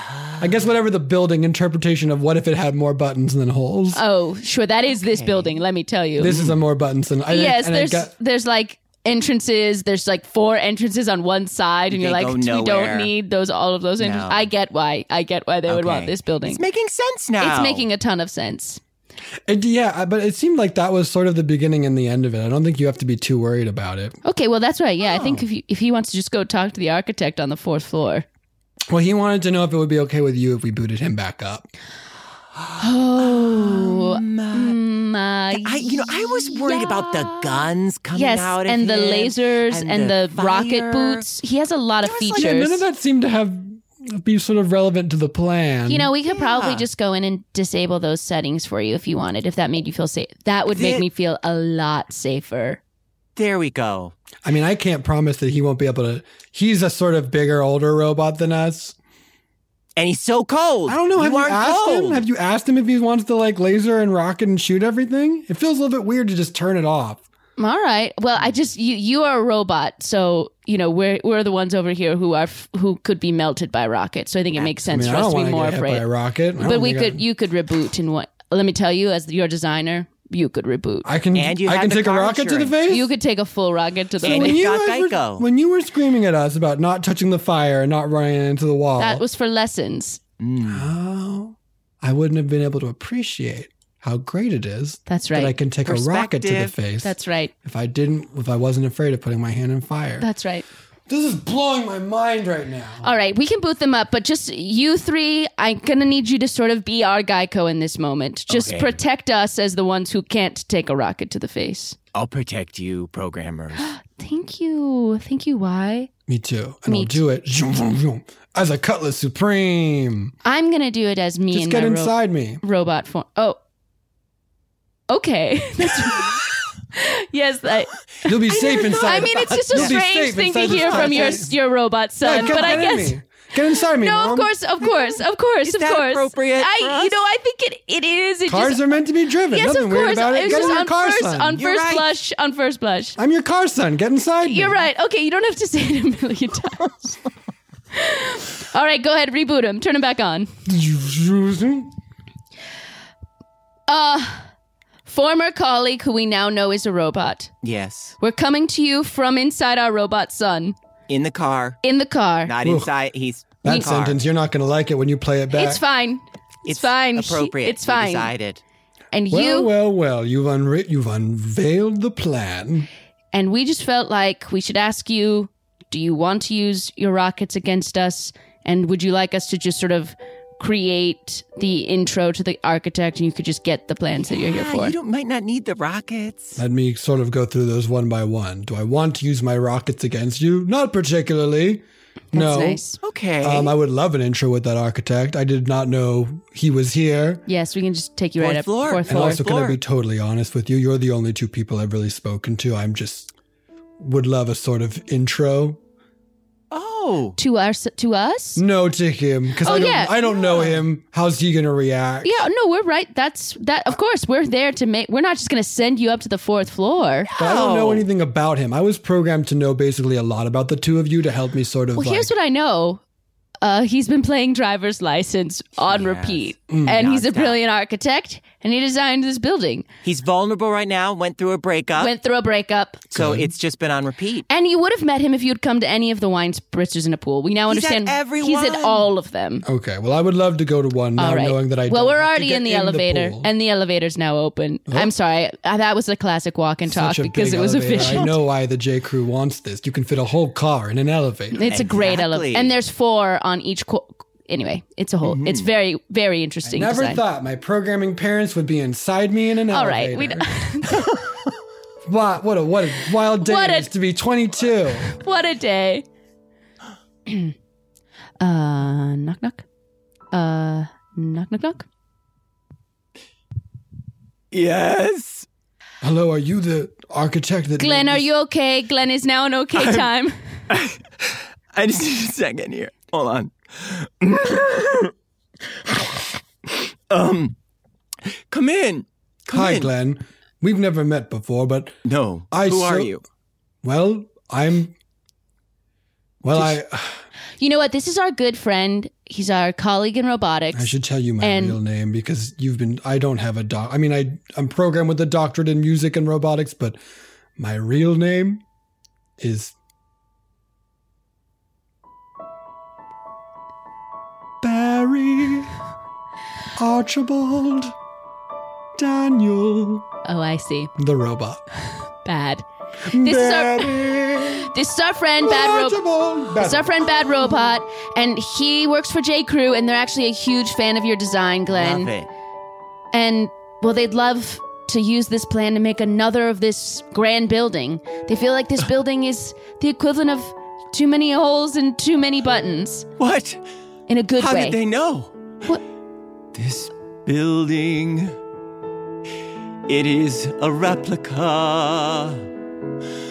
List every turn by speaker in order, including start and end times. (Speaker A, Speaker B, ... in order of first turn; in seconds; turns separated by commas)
Speaker A: 0.1-0.5, Speaker B: 0.4-4.0, Speaker C: 3.9-6.3, Speaker A: 5.0-5.5, Speaker B: 6.2-8.1, Speaker A: 6.3-6.5, Speaker C: 7.3-16.6, Speaker A: 11.9-13.1, Speaker A: 14.0-14.5, Speaker A: 15.7-17.9, Speaker C: 17.4-18.8, Speaker B: 19.5-24.2, Speaker C: 24.2-28.2, Speaker A: 25.0-25.4, Speaker B: 28.9-31.7, Speaker A: 32.6-34.8, Speaker C: 32.8-42.8, Speaker A: 35.5-41.2, Speaker B: 42.0-46.1, Speaker C: 45.9-52.8, Speaker A: 46.3-46.9, Speaker A: 50.7-51.0, Speaker A: 53.4-54.1, Speaker B: 54.4-59.0, Speaker A: 60.0-62.2, Speaker B: 60.9-67.2, Speaker C: 67.6-76.0, Speaker A: 74.5-75.2, Speaker B: 74.9-77.2, Speaker C: 76.6-81.1, Speaker B: 81.0-83.1, Speaker A: 81.3-82.8, Speaker C: 82.9-84.6, Speaker B: 84.2-89.2, Speaker A: 84.2-85.4, Speaker C: 89.0-90.2, Speaker A: 90.4-90.9, Speaker B: 90.7-100.3, Speaker C: 95.1-95.6, Speaker A: 95.8-96.7, Speaker C: 97.0-97.5, Speaker C: 100.2-100.6, Speaker B: 101.1-103.0, Speaker C: 103.0-112.0, Speaker A: 108.5-109.0, Speaker A: 112.1-113.9, Speaker C: 113.8-116.1, Speaker B: 116.3-120.3, Speaker C: 116.9-117.2, Speaker C: 120.4-123.6, Speaker B: 121.5-122.6, Speaker C: 125.1-126.4, Speaker C: 126.9-133.2, Speaker B: 128.2-131.5, Speaker A: 128.5-130.0, Speaker A: 130.6-131.5, Speaker B: 132.2-134.5, Speaker A: 132.3-132.9, Speaker C: 134.0-138.9, Speaker A: 134.8-137.2, Speaker B: 138.5-142.0, Speaker C: 139.5-143.2, Speaker A: 140.4-140.8, Speaker B: 143.2-144.8, Speaker C: 144.4-147.2, Speaker C: 147.9-150.5, Speaker B: 150.7-151.9, Speaker C: 153.9-154.5, Speaker C: 155.1-157.5, Speaker A: 157.6-158.1, Speaker C: 158.2-160.8, Speaker A: 161.1-161.8, Speaker C: 161.8-162.5, Speaker A: 162.4-164.2, Speaker B: 162.6-162.9, Speaker B: 163.6-165.8, Speaker C: 165.5-168.3, Speaker A: 166.6-168.6, Speaker C: 169.1-169.7, Speaker B: 169.3-172.9, Speaker C: 173.3-184.9, Speaker A: 184.3-186.6, Speaker B: 186.6-192.8, Speaker C: 192.3-193.0, Speaker A: 193.0-193.7, Speaker B: 193.4-197.4, Speaker C: 197.5-199.4, Speaker A: 198.4-199.8, Speaker B: 199.0-203.3, Speaker B: 204.0-205.8, Speaker A: 206.7-207.4, Speaker C: 207.4-208.6, Speaker B: 208.6-212.4, Speaker C: 209.6-210.4, Speaker C: 212.2-217.3, Speaker A: 217.3-218.1, Speaker B: 217.4-222.3, Speaker C: 221.9-223.0, Speaker C: 223.6-229.8, Speaker A: 225.9-227.6, Speaker B: 226.7-227.0, Speaker A: 230.0-232.1, Speaker C: 231.9-233.1, Speaker A: 233.1-234.4, Speaker B: 233.1-233.5, Speaker C: 234.5-239.6, Speaker A: 237.7-239.1, Speaker B: 239.6-243.5, Speaker C: 241.2-248.4, Speaker B: 246.9-251.6, Speaker A: 248.0-248.3, Speaker C: 251.5-257.2, Speaker A: 251.6-252.7, Speaker A: 255.2-255.7, Speaker B: 256.7-260.4, Speaker C: 259.7-261.1, Speaker B: 262.1-265.1, Speaker C: 263.3-263.9, Speaker C: 265.0-266.0, Speaker C: 267.3-267.5, Speaker C: 268.4-269.6, Speaker C: 270.3-271.9, Speaker A: 274.5-275.5, Speaker B: 276.0-278.2, Speaker C: 277.8-280.3, Speaker A: 279.7-280.1, Speaker A: 280.7-285.1, Speaker A: 285.9-287.5, Speaker A: 288.5-289.9, Speaker B: 289.5-291.9, Speaker A: 292.0-293.2, Speaker B: 292.5-293.1, Speaker B: 293.8-294.9, Speaker B: 296.4-297.2, Speaker C: 297.6-301.8, Speaker B: 300.7-307.0, Speaker B: 307.6-308.6, Speaker B: 309.4-309.7, Speaker B: 314.6-315.7, Speaker B: 316.8-317.9, Speaker B: 318.9-320.1, Speaker C: 320.2-320.9, Speaker B: 321.0-321.6, Speaker C: 322.2-326.0, Speaker B: 323.1-324.7, Speaker B: 325.4-327.3, Speaker C: 326.5-332.1, Speaker A: 331.7-332.3, Speaker C: 333.1-343.1, Speaker A: 343.2-343.6, Speaker C: 344.1-344.8, Speaker A: 344.4-345.3, Speaker A: 346.5-348.3, Speaker A: 349.9-352.4